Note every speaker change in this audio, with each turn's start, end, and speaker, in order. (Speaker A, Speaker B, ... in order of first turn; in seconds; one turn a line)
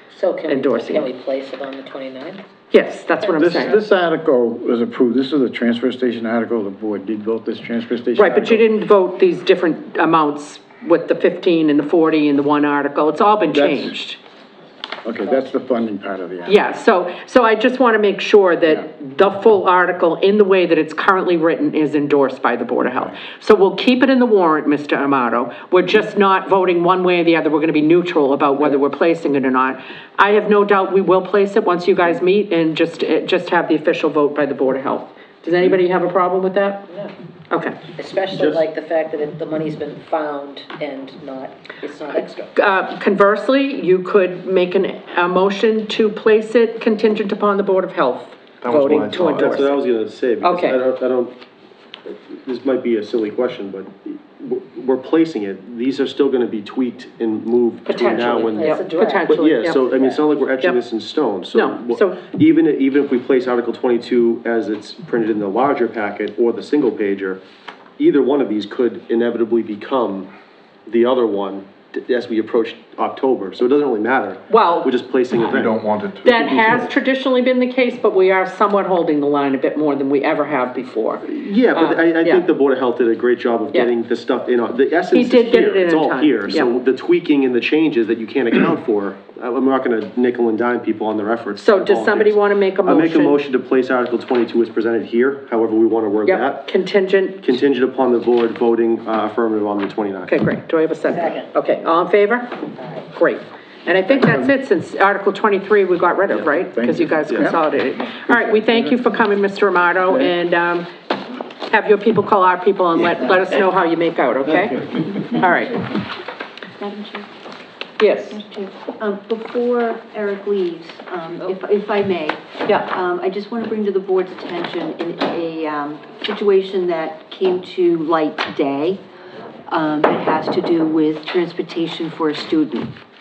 Speaker A: 0.1-2.4
Speaker B: 0.5-1.1
Speaker B: 2.7-3.8
Speaker A: 3.2-3.5
Speaker C: 3.4-8.7
Speaker B: 8.2-14.2
Speaker C: 13.5-13.9
Speaker C: 15.0-16.6
Speaker B: 16.4-36.9
Speaker B: 37.5-37.8
Speaker A: 37.9-42.5
Speaker B: 42.2-49.8
Speaker D: 48.6-49.6
Speaker E: 49.4-51.3
Speaker B: 50.4-50.8
Speaker E: 52.1-67.4
Speaker B: 57.9-60.0
Speaker A: 58.1-59.3
Speaker A: 59.9-60.2
Speaker B: 61.5-62.2
Speaker E: 68.0-70.3
Speaker E: 70.9-75.8
Speaker B: 74.5-74.9
Speaker D: 75.5-76.8
Speaker B: 76.2-82.5
Speaker E: 81.3-96.7
Speaker B: 85.1-86.8
Speaker B: 91.6-93.4
Speaker B: 96.3-97.5
Speaker E: 97.4-100.3
Speaker B: 100.3-102.6
Speaker A: 101.1-101.5
Speaker B: 103.1-110.9
Speaker C: 104.1-104.5
Speaker C: 106.7-109.1
Speaker B: 111.7-115.8
Speaker F: 116.8-117.3
Speaker B: 118.0-118.4
Speaker F: 118.3-129.0
Speaker F: 129.7-132.9